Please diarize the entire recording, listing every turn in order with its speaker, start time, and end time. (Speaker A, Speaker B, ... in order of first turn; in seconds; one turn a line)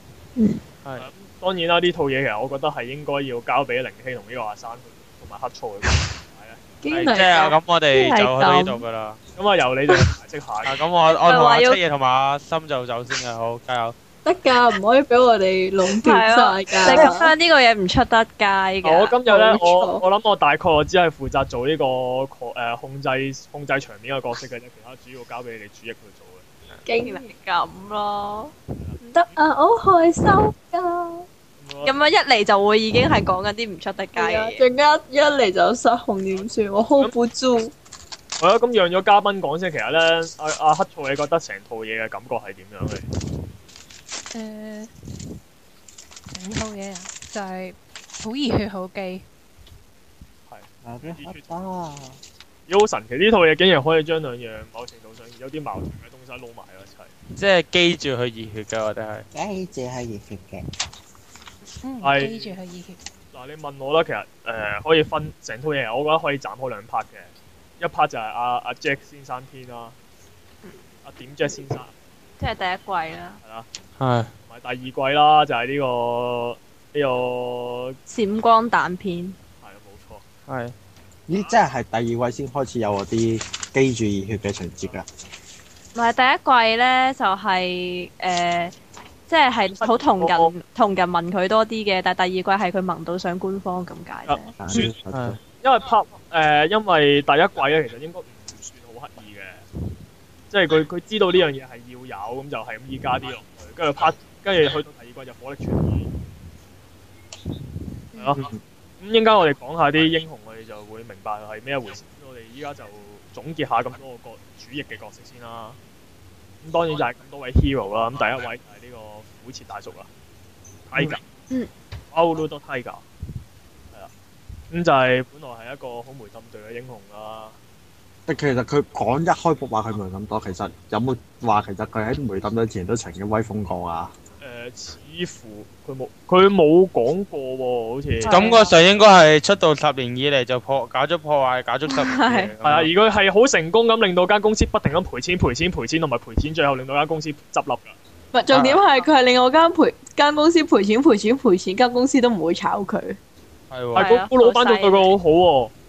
Speaker A: 1.0-6.6
Speaker B: 6.8-7.6
Speaker C: 6.9-9.2
Speaker D: 7.9-8.8
Speaker A: 9.3-10.7
Speaker C: 10.6-13.9
Speaker D: 11.2-11.8
Speaker B: 14.2-17.3
Speaker D: 16.0-19.1
Speaker A: 18.8-26.4
Speaker B: 19.3-20.0
Speaker B: 26.8-27.3
Speaker D: 27.0-29.3
Speaker B: 29.2-31.2
Speaker A: 31.6-31.9
Speaker D: 31.8-34.6
Speaker B: 34.1-37.7
Speaker A: 36.3-37.1
Speaker A: 38.4-43.0
Speaker E: 44.3-44.9
Speaker E: 46.3-49.2
Speaker A: 50.5-51.6
Speaker F: 50.8-52.2
Speaker A: 52.7-57.1
Speaker C: 57.4-59.2
Speaker F: 59.3-60.6
Speaker E: 61.8-63.0
Speaker A: 62.0-62.6
Speaker A: 63.3-69.9
Speaker A: 71.0-71.9
Speaker D: 72.4-73.4
Speaker A: 73.4-73.7
Speaker C: 74.0-74.3
Speaker A: 74.5-78.0
Speaker D: 78.1-79.3
Speaker A: 79.6-80.2
Speaker C: 80.5-80.7
Speaker F: 81.3-85.0
Speaker A: 81.3-81.6
Speaker D: 85.9-88.7
Speaker D: 89.3-94.5
Speaker A: 89.8-90.5
Speaker A: 94.3-94.9
Speaker F: 94.6-95.4
Speaker C: 95.1-95.4
Speaker A: 95.6-99.6
Speaker A: 100.5-106.1
Speaker E: 108.1-108.5
Speaker A: 108.1-115.8
Speaker A: 116.6-120.1
Speaker A: 120.9-121.2
Speaker A: 122.1-123.0
Speaker A: 124.7-127.5
Speaker F: 128.3-134.1
Speaker A: 134.4-138.4
Speaker D: 138.2-138.7
Speaker C: 138.3-142.9
Speaker D: 141.9-142.5
Speaker A: 142.6-147.9
Speaker B: 148.3-153.2
Speaker C: 148.5-148.8
Speaker C: 153.7-154.1
Speaker D: 153.9-155.1
Speaker A: 153.9-155.7